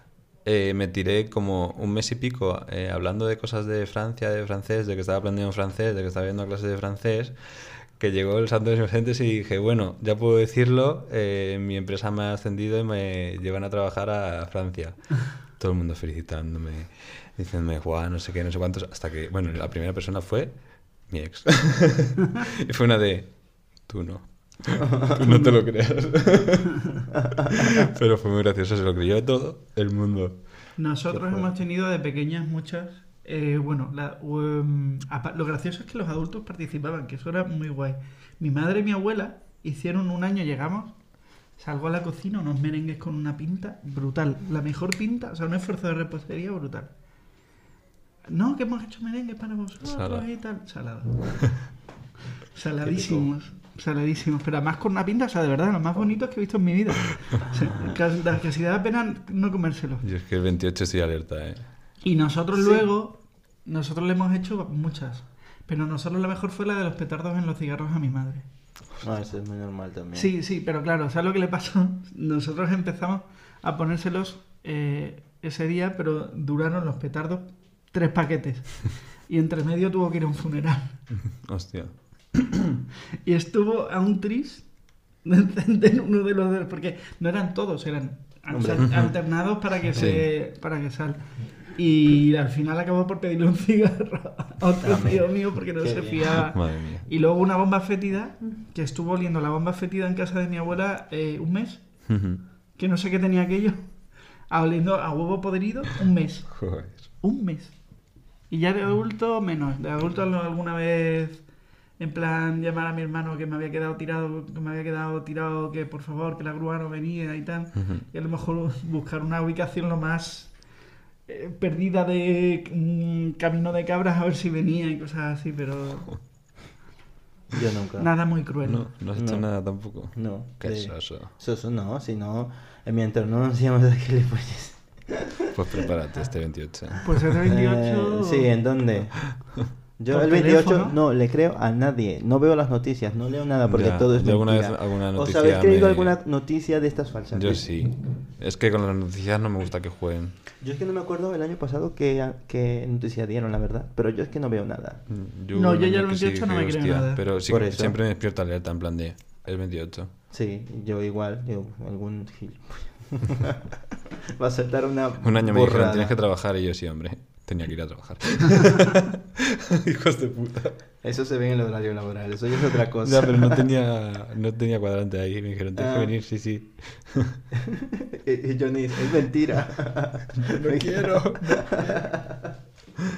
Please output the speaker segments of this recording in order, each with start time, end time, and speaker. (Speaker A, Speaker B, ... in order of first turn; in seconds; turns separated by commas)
Speaker A: 0.4-30.5, Speaker B: 25.2-25.5, Speaker B: 30.8-41.0, Speaker C: 31.1-31.5, Speaker B: 41.6-46.9, Speaker B: 48.3-51.8, Speaker A: 49.8-50.2, Speaker B: 52.5-60.0, Speaker C: 52.8-53.3, Speaker A: 60.0-61.7, Speaker B: 62.0-68.5, Speaker C: 62.6-62.8, Speaker C: 69.0-70.3, Speaker B: 70.1-81.0, Speaker A: 81.3-82.7, Speaker B: 83.2-84.7, Speaker B: 85.2-102.2, Speaker C: 88.5-89.0, Speaker A: 88.8-89.1, Speaker A: 89.9-90.3, Speaker C: 94.8-96.3, Speaker A: 96.4-97.1, Speaker A: 102.1-102.4, Speaker B: 102.8-103.8, Speaker B: 104.5-107.8, Speaker A: 106.5-107.1, Speaker B: 108.5-111.5, Speaker B: 112.0-120.7, Speaker A: 117.8-118.0, Speaker B: 121.3-126.3, Speaker C: 127.5-128.1, Speaker B: 128.0-128.9, Speaker A: 128.6-131.3, Speaker C: 129.1-135.4, Speaker A: 135.5-137.3, Speaker B: 137.0-138.5, Speaker C: 137.4-147.7, Speaker B: 140.1-141.0, Speaker A: 143.7-146.2, Speaker A: 147.3-150.4, Speaker C: 150.6-155.0, Speaker A: 155.1-160.1, Speaker B: 155.5-157.2, Speaker C: 157.5-158.0, Speaker C: 160.3-163.8, Speaker C: 164.4-166.2, Speaker A: 165.2-169.1, Speaker A: 169.8-170.8, Speaker C: 171.0-173.6, Speaker A: 173.0-177.4, Speaker C: 175.8-176.1, Speaker C: 177.7-182.4, Speaker A: 180.4-181.7